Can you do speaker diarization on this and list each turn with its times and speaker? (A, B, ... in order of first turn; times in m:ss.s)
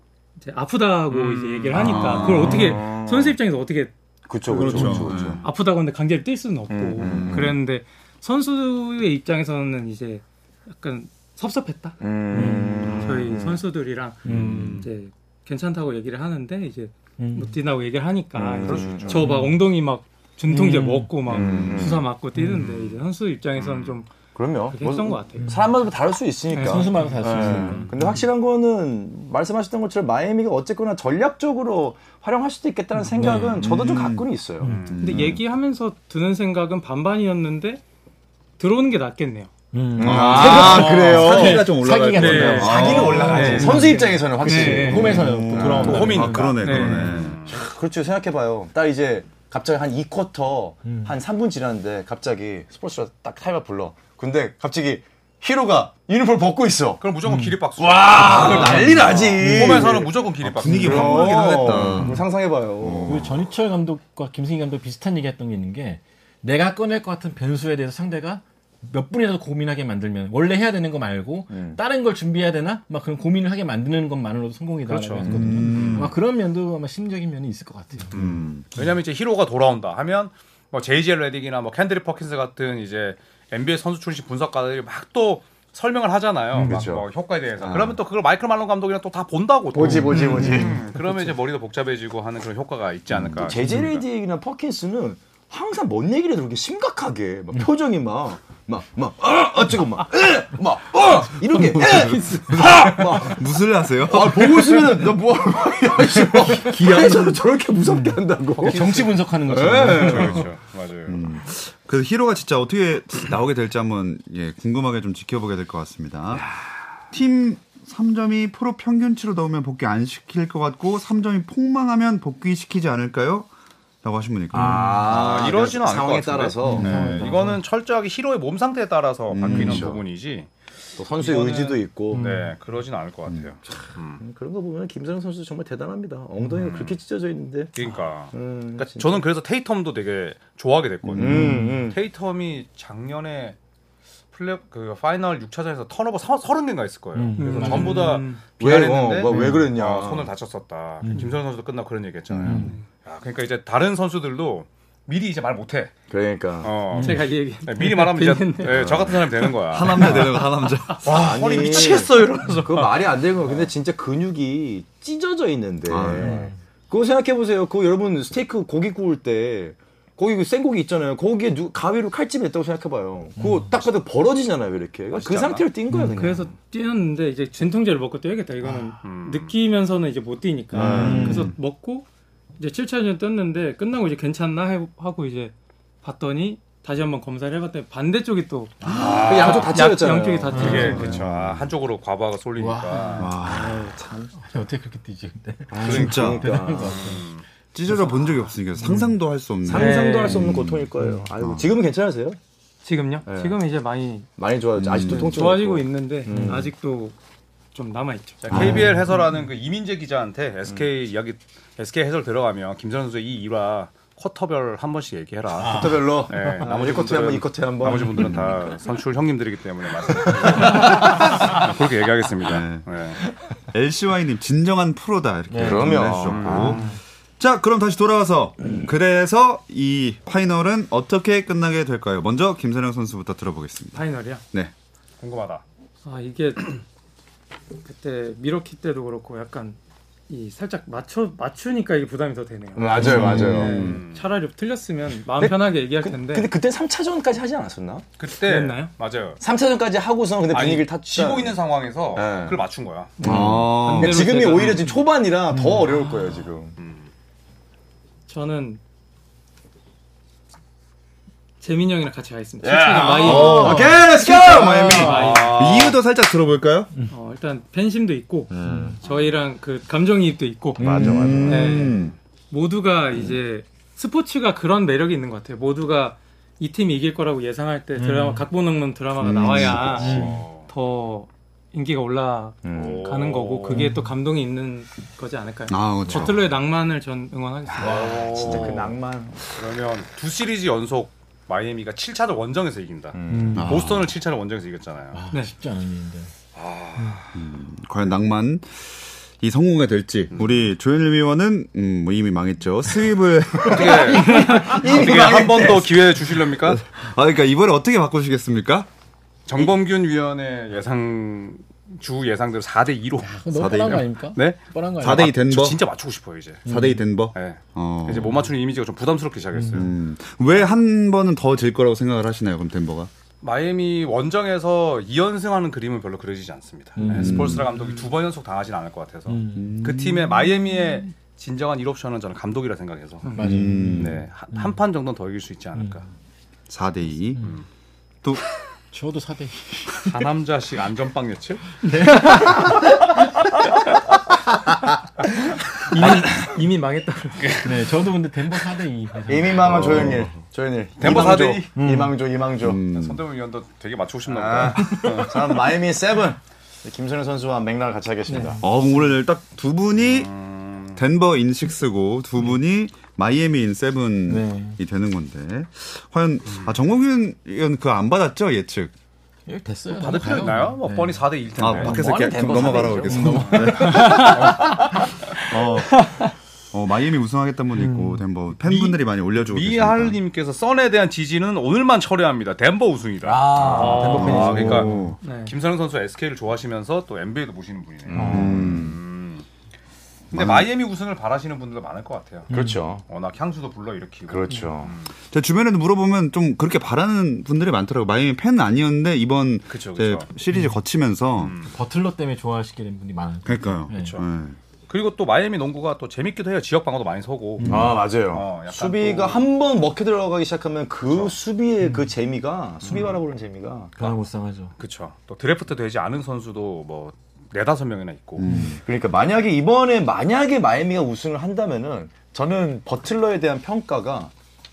0:00.4-0:03.9 A
0:01.1-0:02.1 B
0:01.7-0:02.8 C
0:01.9-0:03.4 D
0:04.3-0:05.4 D
0:04.5-0:05.4 C
0:04.5-0:24.1 A
0:05.1-0:05.4 B
0:06.7-0:07.6 D
0:07.0-0:07.5 C
0:12.0-0:13.6 D
0:12.3-0:13.0 E
0:14.2-0:14.9 B
0:14.2-0:14.9 D
0:17.2-0:17.6 E
0:18.4-0:19.3 D
0:18.6-0:19.3 B
0:19.1-0:19.6 E
0:20.5-0:21.2 E
0:21.3-0:22.1 D
0:21.3-0:21.9 B
0:22.4-0:22.7 E
0:22.6-0:23.0 B
0:23.6-0:24.0 B
0:24.4-0:34.8 D
0:24.7-0:25.6 A
0:25.4-0:25.7 E
0:26.5-0:27.2 A
0:26.6-0:28.2 E
0:27.4-0:27.9 B
0:33.1-0:33.6 E
0:33.3-0:34.3 C
0:34.7-0:35.0 B
0:34.8-0:35.4 C
0:34.9-0:37.8 A
0:38.6-0:39.5 A
0:39.7-0:47.1 E
0:40.0-0:41.8 D
0:40.0-0:43.9 C
0:40.3-0:41.6 A
0:42.1-0:44.2 A
0:42.4-0:46.2 D
0:44.5-0:47.5 C
0:45.8-0:47.5 B
0:46.6-0:47.2 A
0:47.5-0:57.1 D
0:50.8-0:51.2 E
0:57.0-1:01.8 B
0:57.2-1:00.0 E
0:57.8-1:03.3 D
0:58.8-0:59.3 C
1:00.6-1:02.2 C
1:00.6-1:01.1 E
1:01.9-1:02.2 E
1:02.8-1:03.4 C
1:03.1-1:18.1 E
1:11.5-1:11.8 D
1:14.9-1:16.1 B
1:15.2-1:16.1 C
1:18.1-1:34.0 B
1:18.2-1:18.6 C
1:26.6-1:27.1 D
1:27.6-1:28.0 D
1:29.7-1:30.9 D
1:29.9-1:30.8 E
1:30.2-1:30.8 A
1:33.3-1:43.4 D
1:41.6-1:45.1 C
1:44.0-1:50.5 D
1:46.5-1:47.4 C
1:47.8-1:50.4 E
1:49.9-1:51.3 B
1:50.1-1:50.4 C
1:51.1-1:56.5 C
1:56.3-1:56.7 D
1:57.1-2:03.5 C
2:04.0-2:05.0 C
2:04.5-2:07.4 D
2:04.5-2:05.0 E
2:04.9-2:10.5 B
2:06.6-2:07.6 E
2:09.3-2:10.0 C
2:09.4-2:10.0 D
2:11.0-2:12.4 D
2:11.0-2:14.2 B
2:12.1-2:12.5 E
2:13.7-2:19.2 D
2:16.6-2:17.0 B
2:17.7-2:23.6 B
2:21.1-2:22.0 D
2:21.2-2:21.9 E
2:24.3-2:35.9 B
2:27.2-2:28.2 E
2:27.4-2:28.4 A
2:28.6-2:30.3 D
2:29.3-2:29.7 E
2:31.0-2:31.3 E
2:32.3-2:32.8 D
2:32.4-2:32.8 E
2:36.1-2:36.8 D
2:36.6-2:40.4 B
2:36.9-2:37.3 E
2:37.0-2:38.9 A
2:38.8-2:39.2 D
2:39.6-2:41.1 C
2:41.0-2:43.7 B
2:41.0-2:56.5 D
2:45.9-2:46.5 C
2:46.2-2:46.5 E
2:53.4-2:53.7 E
2:55.1-2:55.7 B
2:55.9-2:56.4 E
2:56.1-3:11.2 A
2:59.0-2:59.5 B
3:00.7-3:01.5 E
3:00.8-3:01.5 D
3:01.0-3:01.5 C
3:08.8-3:11.0 D
3:08.8-3:09.8 B
3:08.9-3:09.2 C
3:10.5-3:11.2 E
3:10.5-3:13.3 B
3:11.1-3:11.6 C
3:12.6-3:17.3 E
3:13.2-3:14.0 C
3:13.4-3:14.3 D
3:15.7-3:17.2 D
3:15.8-3:16.2 B
3:15.8-3:16.6 C
3:16.8-3:17.4 B
3:17.7-3:21.7 C
3:18.8-3:19.2 E
3:19.6-3:22.4 D
3:19.7-3:20.5 A
3:22.8-3:24.3 A
3:23.3-3:23.6 D
3:24.4-3:26.7 D
3:24.8-3:25.4 C
3:25.1-3:27.2 A
3:26.3-3:26.7 E
3:27.7-3:28.7 A
3:28.4-3:43.2 B
3:28.5-3:29.1 E
3:28.6-3:28.8 D
3:35.6-3:36.6 E
3:35.6-3:38.5 D
3:38.2-3:38.5 C
3:40.5-3:40.9 D
3:40.6-3:41.0 E
3:42.4-3:43.0 C
3:43.7-3:54.7 C
3:45.5-3:46.0 E
3:45.5-3:46.8 D
3:46.0-3:46.9 B
3:46.6-3:47.0 E
3:53.9-3:54.4 A
3:55.2-3:55.6 B
3:56.0-3:56.8 A
3:57.8-3:59.8 A
4:00.3-4:06.5 A
4:02.8-4:03.9 D
4:03.0-4:04.0 C
4:03.0-4:03.7 E
4:03.6-4:04.3 B
4:05.4-4:08.1 D
4:08.2-4:09.4 B
4:08.4-4:08.9 A
4:09.4-4:11.6 D
4:10.5-4:13.2 B
4:12.1-4:12.6 D
4:13.2-4:15.0 A
4:13.2-4:16.8 D
4:13.2-4:14.4 C
4:15.5-4:16.0 E
4:16.8-4:17.1 B
4:18.3-4:18.8 A
4:21.6-4:25.8 A
4:22.6-4:25.4 D
4:23.2-4:26.9 C
4:23.3-4:23.9 E
4:24.9-4:26.0 B
4:27.1-4:48.2 A
4:28.5-4:29.0 D
4:29.0-4:29.4 B
4:30.8-4:31.6 E
4:30.8-4:32.0 D
4:31.0-4:32.2 C
4:38.0-4:38.5 E
4:39.2-4:40.1 C
4:39.6-4:40.4 D
4:40.0-4:40.4 E
4:40.0-4:40.7 B
4:42.6-4:43.1 D
4:42.7-4:43.8 B
4:43.7-4:44.1 E
4:45.7-4:46.5 C
4:47.7-4:49.4 D
4:47.8-4:48.9 B
4:48.4-4:48.8 C
4:49.5-4:55.2 B
4:53.1-4:53.8 D
4:53.3-4:53.8 E
4:53.6-4:54.1 C
4:55.1-4:56.3 E
4:56.6-4:57.4 B
4:57.0-4:57.2 E
4:57.3-5:04.3 C
5:03.6-5:06.8 B
5:04.2-5:04.7 E
5:04.2-5:06.0 D
5:04.3-5:04.7 A
5:06.5-5:08.9 C
5:09.5-5:16.7 B
5:13.2-5:15.3 E
5:13.5-5:14.1 C
5:15.0-5:15.8 C
5:16.7-5:17.0 E
5:16.7-5:18.5 C
5:17.3-5:19.9 B
5:19.6-5:19.9 E
5:19.7-5:23.1 C
5:23.4-5:33.3 B
5:27.0-5:27.6 E
5:27.1-5:27.7 C
5:29.3-5:29.8 E
5:29.5-5:30.3 C
5:33.2-5:33.6 A
5:33.4-5:34.7 E
5:33.4-5:34.2 C
5:33.9-5:36.1 B
5:36.7-5:37.5 C
5:38.9-5:40.2 E
5:40.0-5:42.4 B
5:41.8-5:43.4 E
5:45.9-5:47.7 A
5:47.6-5:50.3 E
5:49.3-5:52.8 D
5:49.6-5:50.3 C
5:51.0-5:51.7 B
5:51.7-5:52.2 E
5:52.6-5:53.2 C
5:52.9-5:55.5 B
5:54.3-5:58.6 D
5:54.9-5:55.2 E
5:58.3-5:58.6 A
5:58.6-6:00.3 C
6:00.0-6:01.0 B
6:00.9-6:08.9 C
6:04.3-6:04.8 E
6:09.5-6:11.2 E
6:09.9-6:15.0 B
6:11.6-6:14.5 C
6:11.7-6:13.4 D
6:13.1-6:15.2 E
6:13.8-6:14.4 A
6:15.4-6:16.2 C
6:16.7-6:20.2 C
6:17.8-6:18.2 E
6:18.6-6:24.9 B
6:23.2-6:25.0 D
6:23.6-6:25.2 C
6:24.2-6:25.2 E
6:25.2-6:25.5 A
6:25.4-6:29.4 B
6:28.1-6:28.8 D
6:28.1-6:28.5 E
6:28.2-6:29.0 C
6:30.3-6:32.5 B
6:30.3-6:30.7 C
6:32.5-6:32.8 E
6:32.5-6:33.0 D
6:33.1-6:35.1 B
6:34.3-6:34.9 D
6:35.3-6:41.6 C
6:39.7-6:40.3 B
6:41.4-6:41.7 B
6:41.7-6:44.2 E
6:43.4-6:44.6 C
6:44.0-6:44.2 B
6:44.9-6:49.5 B
6:47.6-6:48.0 E
6:47.7-6:54.1 D
6:51.1-6:51.4 B
6:51.8-6:52.1 E
6:52.8-6:53.2 B
6:54.0-6:54.7 E
6:54.8-6:58.5 B
6:58.4-6:58.8 C
6:58.4-6:58.8 E
6:58.8-7:04.3 D